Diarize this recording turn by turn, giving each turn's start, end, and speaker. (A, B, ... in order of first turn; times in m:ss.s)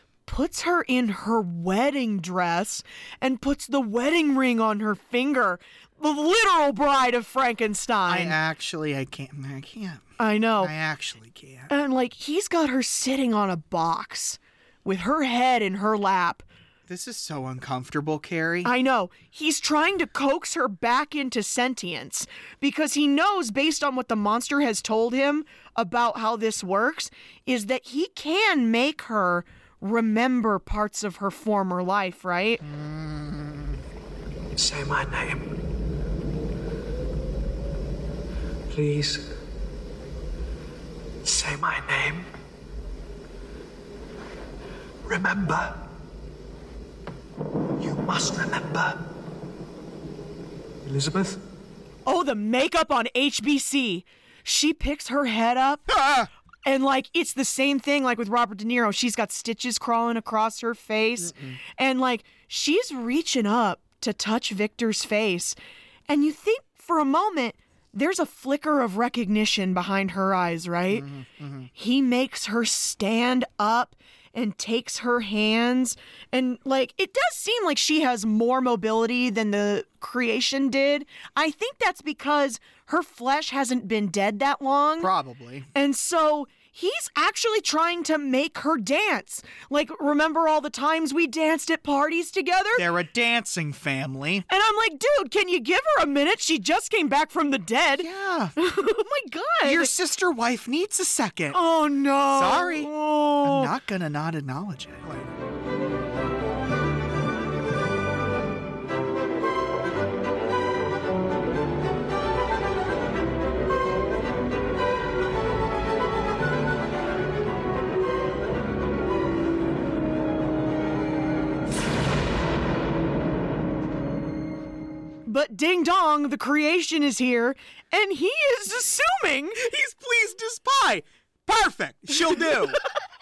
0:00.3-0:08.4 A
0:08.1-0:10.0 B
0:10.2-0:10.7 A
0:10.6-0:11.7 B
0:11.7-0:16.4 A
0:16.9-0:18.7 B
0:18.6-0:32.6 A
0:32.6-0:33.6 B
0:34.6-0:35.5 C
0:38.7-0:39.2 C
0:41.2-0:42.3 C
0:45.1-0:45.8 C
0:47.8-0:49.0 C
0:50.9-0:51.4 C
0:52.1-0:55.8 A
0:55.9-0:56.3 B
0:56.6-1:05.6 A
1:01.3-1:01.6 B
1:06.1-1:11.1 A
1:10.9-1:11.7 B
1:11.8-1:25.1 A
1:25.0-1:25.7 B
1:25.7-1:32.8 A
1:32.8-1:34.5 B
1:34.5-1:39.9 A
1:38.0-1:38.6 B
1:39.6-1:41.6 B
1:41.5-1:43.7 A
1:42.3-1:45.3 B
2:05.3-2:09.6 A
2:09.6-2:12.8 B